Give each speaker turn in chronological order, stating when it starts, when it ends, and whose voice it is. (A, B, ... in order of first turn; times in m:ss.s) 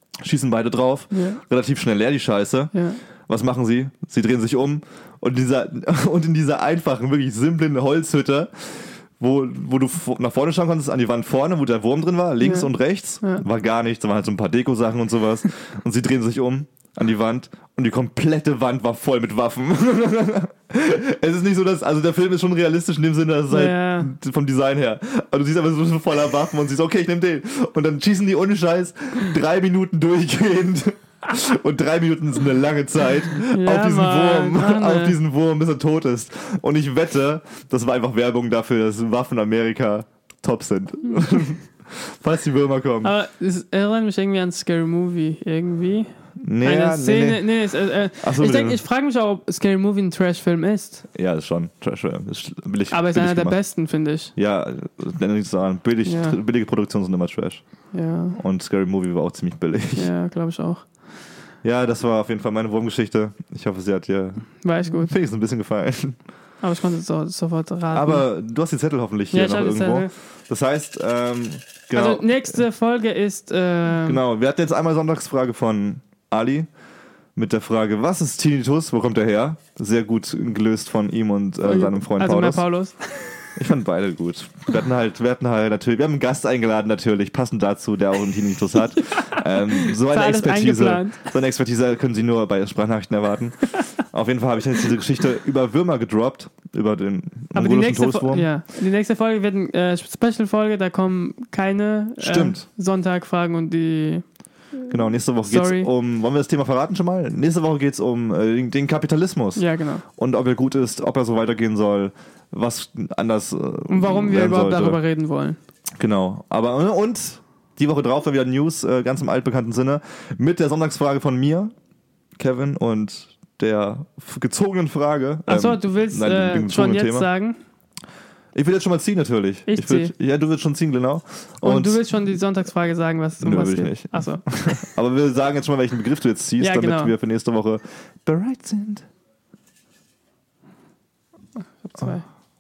0:00.2-0:02.7 A
0:01.1-0:01.4 B
0:02.7-0:03.0 B
0:03.3-0:43.1 A
0:12.4-0:13.4 B
0:23.5-0:24.1 B
0:33.5-0:35.2 B
0:43.0-0:51.1 B
0:46.4-0:47.7 A
0:48.2-0:48.8 A
0:51.1-0:53.6 A
0:52.9-0:54.3 B
0:54.4-0:57.6 A
0:56.0-0:56.4 B
0:57.9-0:58.4 B
0:58.3-1:00.1 A
1:00.0-1:00.9 B
1:01.6-1:06.2 A
1:04.6-1:05.1 B
1:06.6-1:08.3 B
1:07.9-1:12.6 A
1:09.3-1:10.1 B
1:11.9-1:14.2 B
1:14.0-1:16.7 A
1:17.4-1:22.6 A
1:21.6-1:23.4 B
1:23.6-1:38.5 A
1:29.2-1:31.2 B
1:37.5-1:44.2 B
1:42.2-1:42.7 A
1:44.8-1:45.9 B
1:44.9-1:55.0 A
1:49.6-1:50.0 B
1:53.9-1:55.6 B
1:56.0-2:01.7 A
2:02.4-2:07.3 A
2:05.5-2:07.6 B
2:08.5-2:12.4 A
2:09.7-2:10.1 B
2:11.6-2:14.4 B
2:13.4-2:19.1 A
2:16.6-2:17.1 B
2:21.8-2:22.3 B